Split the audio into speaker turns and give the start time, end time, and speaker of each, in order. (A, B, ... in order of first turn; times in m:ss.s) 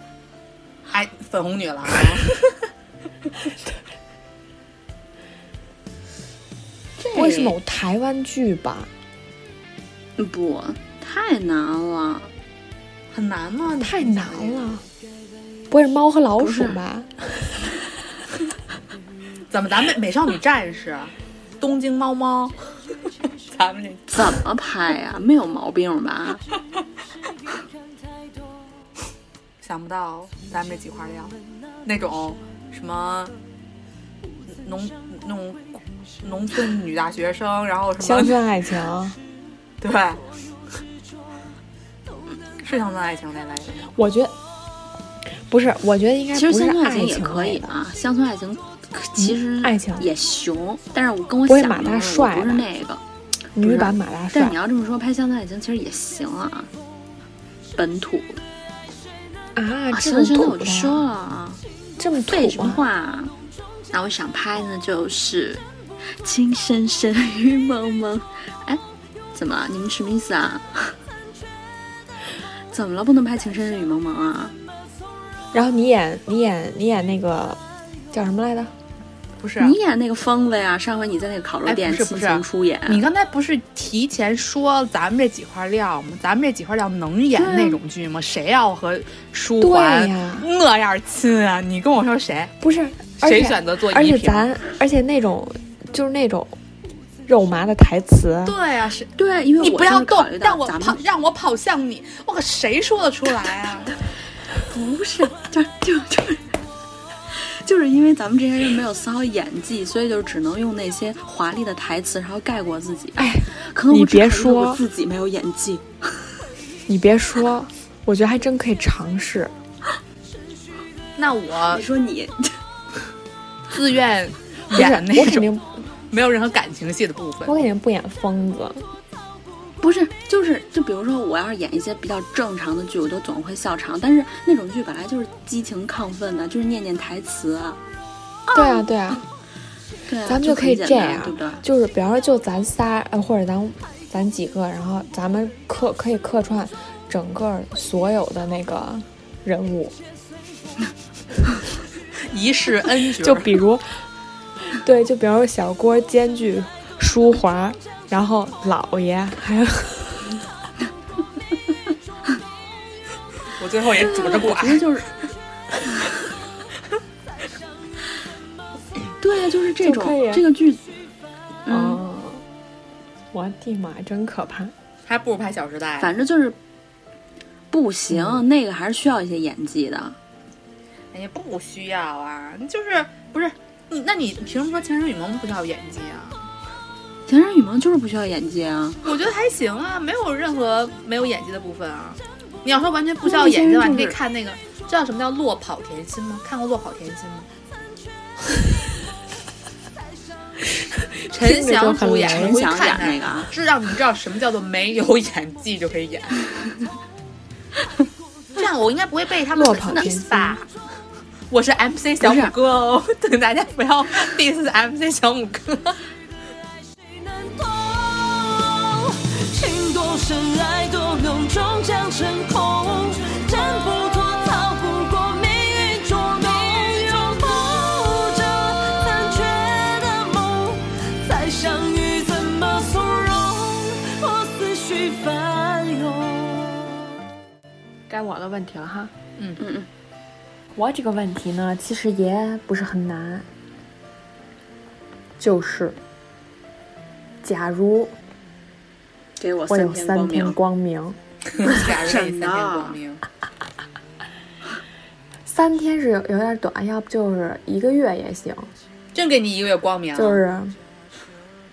0:00.9-0:02.5 A
0:07.0-0:07.6 B
0:07.1-0:08.9 C
0:10.2-0:12.3 B
0:13.1-0:14.6 A
0:13.8-0:14.8 C
0:15.7-0:17.7 C
0:16.4-0:16.8 B
0:19.5-0:22.6 A
0:23.5-0:24.4 A
0:24.1-0:26.4 B
0:29.6-0:33.3 A
0:34.4-0:38.4 A
0:38.0-0:39.2 C
0:39.8-0:40.2 A
0:42.6-0:43.9 A
0:43.9-0:44.4 C
0:45.4-0:47.7 C
0:46.3-0:53.0 B
0:49.2-0:50.1 C
0:51.5-0:52.6 C
0:53.6-0:54.6 C
0:53.6-0:56.7 B
0:57.8-0:58.4 B
0:59.6-1:01.0 C
0:59.9-1:01.6 B
1:02.0-1:02.8 C
1:02.3-1:03.3 B
1:03.9-1:08.8 B
1:09.3-1:10.9 B
1:12.7-1:14.5 B
1:15.5-1:17.6 C
1:18.1-1:18.7 C
1:19.4-1:19.8 A
1:19.6-1:23.0 B
1:21.6-1:32.5 A
1:27.4-1:27.7 C
1:29.6-1:30.5 C
1:32.6-1:36.6 C
1:33.2-1:34.5 A
1:37.2-1:38.6 C
1:38.4-1:43.9 A
1:39.2-1:41.0 B
1:44.7-1:46.5 B
1:47.3-1:55.9 B
1:53.2-1:54.8 C
1:56.9-1:59.5 C
2:01.2-2:01.8 A
2:01.7-2:02.6 B
2:03.7-2:05.5 A
2:04.7-2:05.8 C
2:06.1-2:07.6 A
2:07.4-2:08.8 C
2:09.8-2:17.8 B
2:18.5-2:19.2 B
2:18.5-2:19.2 C
2:20.1-2:21.6 B
2:20.2-2:30.0 C
2:32.2-2:33.5 A
2:33.2-2:34.0 C
2:34.7-2:40.3 C
2:43.6-2:45.0 A
2:43.9-2:45.1 B
2:49.2-2:50.9 B
2:49.8-2:50.4 C
2:51.6-2:52.0 B
2:51.7-2:52.4 C
2:53.3-2:54.7 C
2:55.0-2:56.1 A
2:56.0-2:56.6 B
2:57.7-3:00.2 B
3:01.1-3:06.5 A
3:07.3-3:09.1 B
3:09.0-3:17.5 A
3:13.2-3:14.1 B
3:20.8-3:22.6 C
3:21.3-3:26.4 A
3:22.0-3:23.5 B
3:28.6-3:30.7 A
3:29.5-3:30.6 C
3:31.5-3:36.0 A
3:32.2-3:32.5 B
3:37.1-3:56.9 D
3:58.1-3:59.1 C
3:59.6-3:59.9 B
4:00.7-4:03.5 C
4:05.4-4:06.0 C
4:07.4-4:08.1 C
4:09.4-4:10.6 B
4:09.7-4:11.2 C
4:11.5-4:13.2 A
4:11.6-4:13.0 B
4:15.4-4:18.7 C
4:19.1-4:20.4 A
4:20.1-4:20.8 C